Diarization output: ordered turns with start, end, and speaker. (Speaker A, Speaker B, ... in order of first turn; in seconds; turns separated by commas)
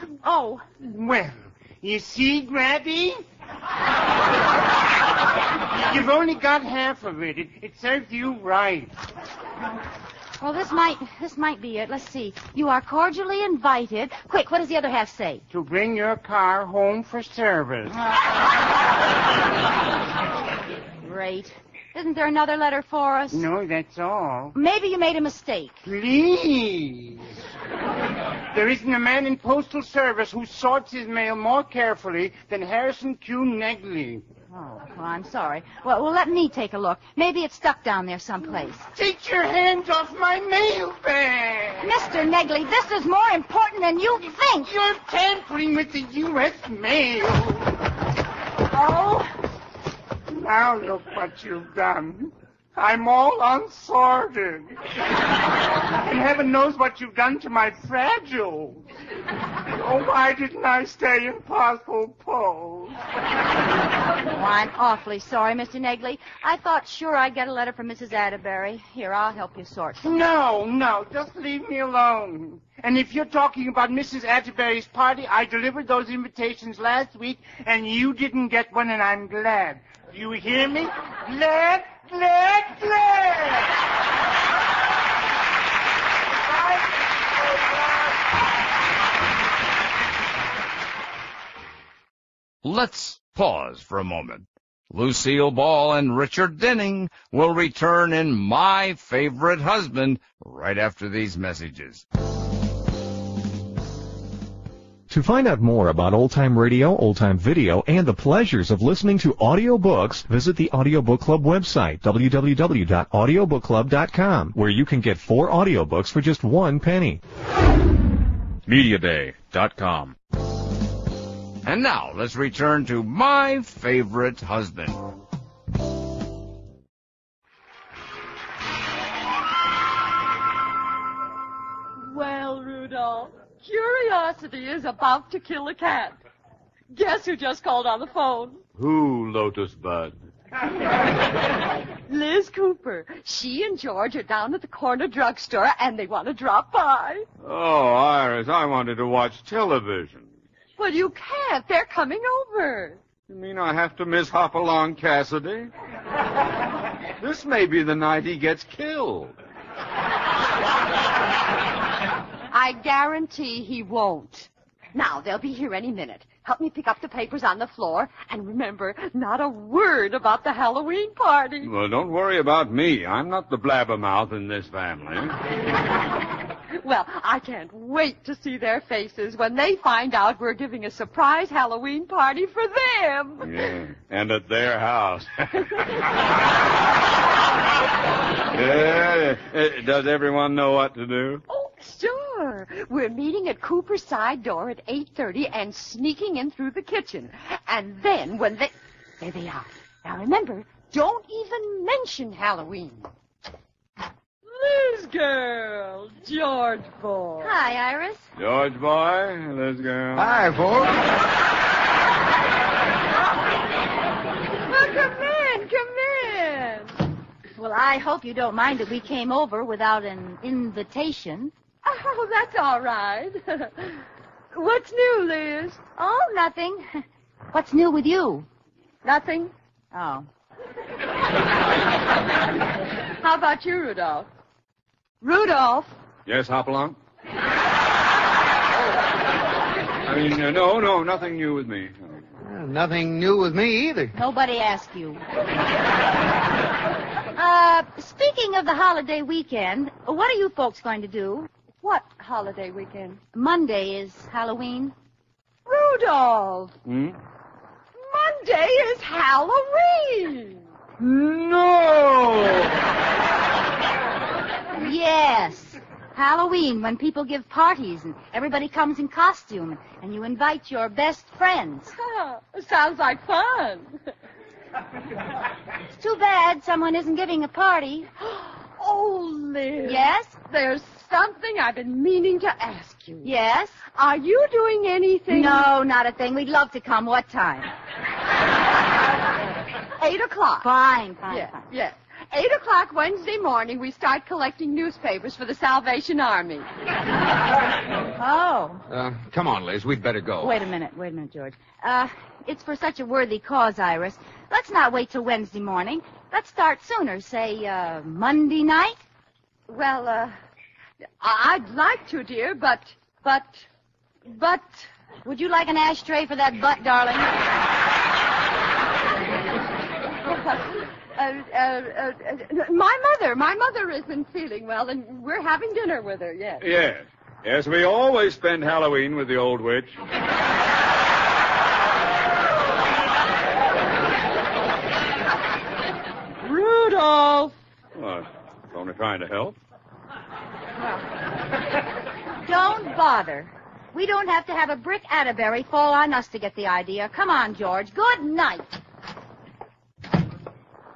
Speaker A: 0.2-0.6, Speaker B: 0.8-3.2, Speaker B: 5.7-8.9, Speaker A: 10.4-15.4, Speaker B: 15.5-17.9, Speaker A: 17.9-18.2, Speaker A: 21.0-23.5, Speaker B: 23.3-24.5, Speaker A: 24.5-25.8, Speaker B: 25.8-27.3, Speaker B: 28.5-34.2, Speaker A: 34.5-38.8, Speaker B: 38.9-41.9, Speaker A: 41.8-44.7, Speaker B: 44.6-47.7, Speaker A: 48.7-49.2, Speaker B: 50.3-54.7, Speaker B: 55.9-58.8, Speaker B: 59.8-63.0, Speaker A: 64.3-70.2, Speaker B: 70.0-83.7, Speaker C: 92.6-102.0, Speaker D: 105.1-117.2, Speaker E: 118.7-119.5, Speaker C: 119.0-120.1, Speaker C: 121.6-125.0, Speaker F: 132.0-136.2, Speaker F: 136.9-138.6, Speaker E: 138.8-140.1, Speaker F: 142.1-147.3, Speaker E: 147.4-150.3, Speaker F: 150.8-153.0, Speaker E: 153.3-155.7, Speaker E: 157.2-159.3, Speaker F: 162.5-171.7, Speaker E: 171.6-175.3, Speaker F: 176.7-183.5, Speaker E: 183.4-185.6, Speaker E: 188.5-191.4, Speaker F: 191.5-203.1, Speaker F: 204.5-207.6, Speaker A: 207.4-208.3, Speaker E: 208.4-210.4, Speaker G: 210.1-211.0, Speaker F: 214.7-216.9, Speaker A: 217.6-221.5, Speaker F: 221.8-224.0, Speaker F: 224.5-225.8, Speaker A: 225.9-228.4, Speaker F: 229.0-229.5, Speaker A: 229.9-230.3, Speaker F: 233.2-234.3, Speaker F: 235.2-235.9, Speaker E: 236.2-236.9, Speaker E: 240.0-242.2, Speaker G: 242.4-244.1, Speaker A: 244.1-245.2, Speaker A: 247.3-251.5, Speaker F: 251.8-253.2, Speaker A: 253.3-254.9, Speaker F: 255.7-256.7, Speaker A: 256.3-256.7, Speaker E: 256.9-257.1, Speaker F: 257.9-260.6, Speaker E: 261.0-262.6, Speaker A: 264.8-271.9, Speaker F: 272.0-274.0, Speaker A: 275.9-278.1, Speaker F: 278.2-283.3, Speaker A: 279.8-280.4, Speaker A: 283.2-283.8, Speaker F: 283.8-285.6, Speaker A: 285.3-287.7, Speaker F: 290.0-290.7, Speaker A: 290.6-291.6, Speaker F: 291.3-296.7, Speaker A: 298.2-298.8, Speaker G: 298.9-300.6, Speaker A: 300.4-309.0, Speaker F: 309.7-310.3, Speaker F: 311.2-313.6, Speaker F: 314.3-314.9, Speaker A: 315.2-317.3, Speaker F: 320.2-326.6, Speaker E: 326.6-329.9, Speaker F: 336.5-337.5, Speaker E: 337.9-339.6, Speaker A: 342.4-348.7